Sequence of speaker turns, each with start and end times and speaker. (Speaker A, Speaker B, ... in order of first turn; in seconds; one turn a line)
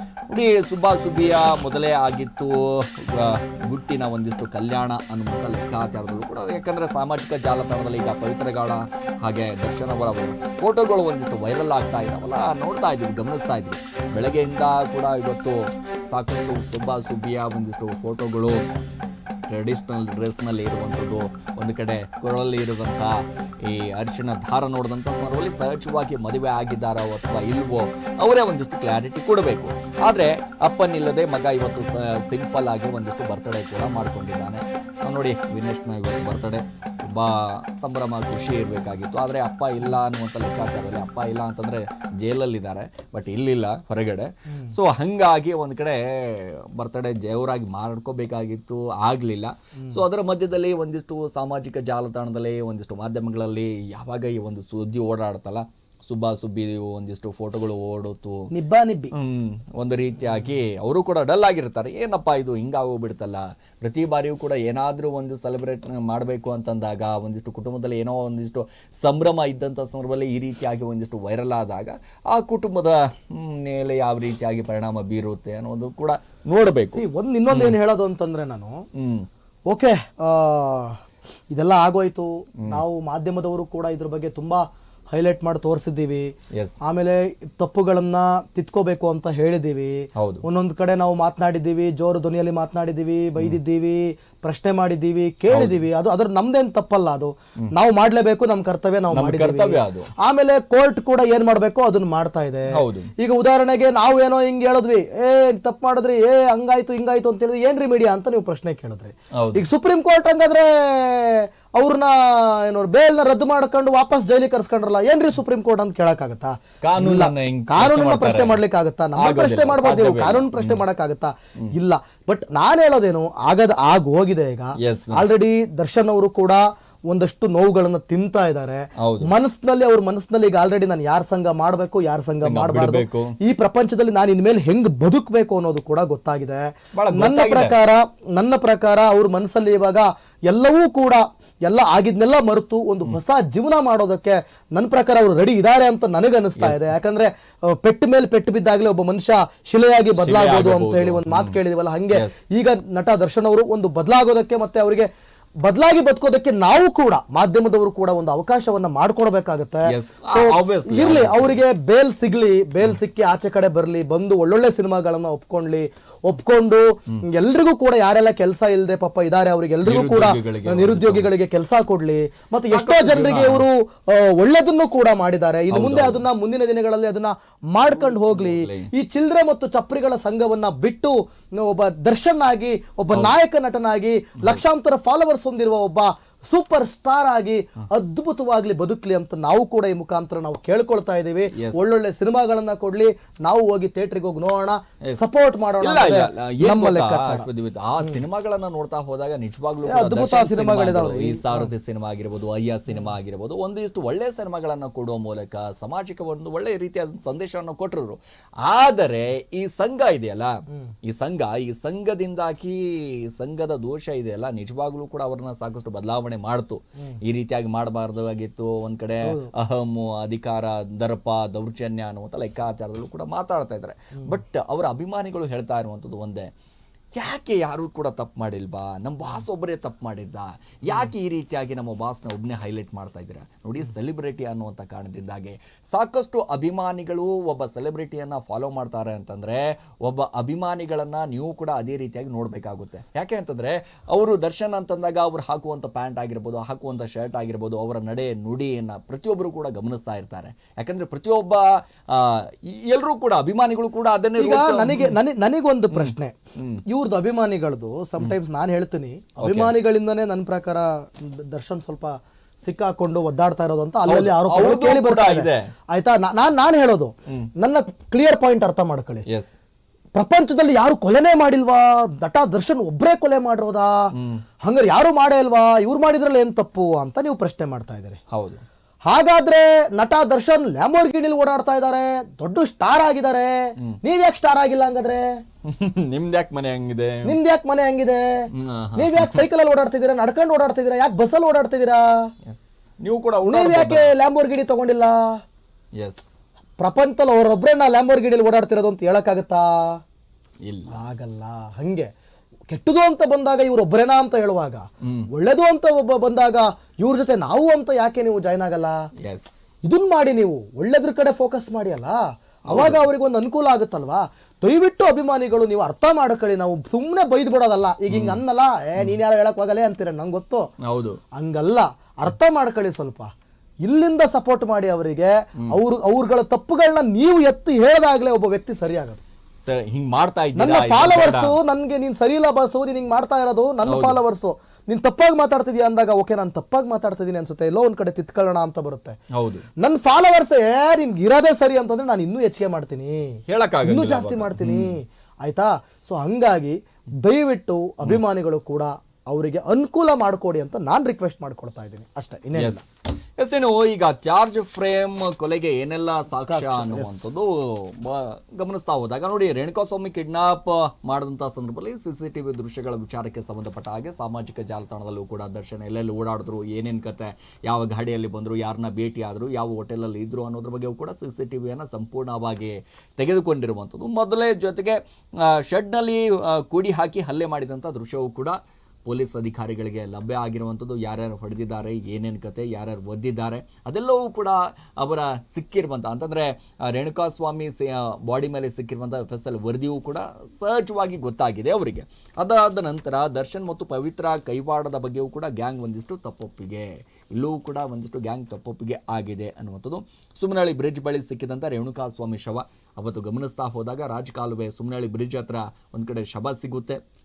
Speaker A: 0.3-18.6
Speaker A: 19.5-58.5
Speaker B: 44.5-44.8
Speaker B: 58.5-59.1
Speaker A: 59.1-77.8
Speaker B: 76.9-78.8
Speaker A: 78.9-79.3
Speaker B: 79.7-81.0
Speaker B: 81.5-86.3
Speaker A: 86.5-86.8
Speaker B: 86.8-155.1
Speaker A: 90.2-90.4
Speaker A: 95.5-95.8
Speaker A: 99.1-100.1
Speaker A: 102.7-103.1
Speaker A: 109.3-109.6
Speaker A: 116.8-118.6
Speaker A: 119.2-120.8
Speaker A: 124.8-125.2
Speaker A: 129.0-129.3
Speaker A: 132.4-133.3
Speaker A: 136.9-137.8
Speaker A: 146.6-146.9
Speaker A: 150.2-151.6
Speaker A: 152.1-152.4
Speaker B: 155.7-197.5
Speaker A: 159.9-161.6
Speaker A: 169.8-171.3
Speaker A: 172.6-173.7
Speaker A: 175.7-176.2
Speaker A: 177.8-178.9
Speaker A: 191.5-191.9
Speaker A: 195.8-210.5
Speaker B: 199.8-201.7
Speaker A: 211.0-226.5
Speaker B: 219.2-219.5
Speaker A: 227.2-255.2
Speaker B: 254.4-269.2
Speaker A: 255.9-256.8
Speaker A: 259.4-259.7
Speaker A: 264.1-265.7
Speaker A: 269.3-269.6
Speaker B: 270.1-274.1
Speaker A: 274.1-274.4
Speaker B: 274.6-278.2
Speaker A: 278.3-278.6
Speaker B: 279.1-285.3
Speaker A: 285.6-287.4
Speaker B: 287.2-292.3
Speaker A: 288.5-289.4
Speaker A: 292.4-294.1
Speaker B: 293.4-295.4
Speaker A: 296.0-296.3
Speaker B: 296.8-300.0
Speaker A: 300.6-301.0
Speaker B: 300.9-302.1
Speaker B: 302.7-308.9
Speaker A: 305.0-305.3
Speaker A: 309.2-309.7
Speaker B: 309.8-320.7
Speaker A: 312.7-313.1
Speaker A: 318.1-318.4
Speaker A: 320.8-321.2
Speaker B: 321.3-323.3
Speaker B: 323.9-329.2
Speaker A: 329.6-331.6
Speaker B: 330.6-339.2
Speaker A: 333.8-334.2
Speaker A: 339.3-339.6
Speaker B: 339.8-352.8
Speaker A: 343.4-344.9
Speaker A: 352.6-407.0
Speaker B: 356.5-357.2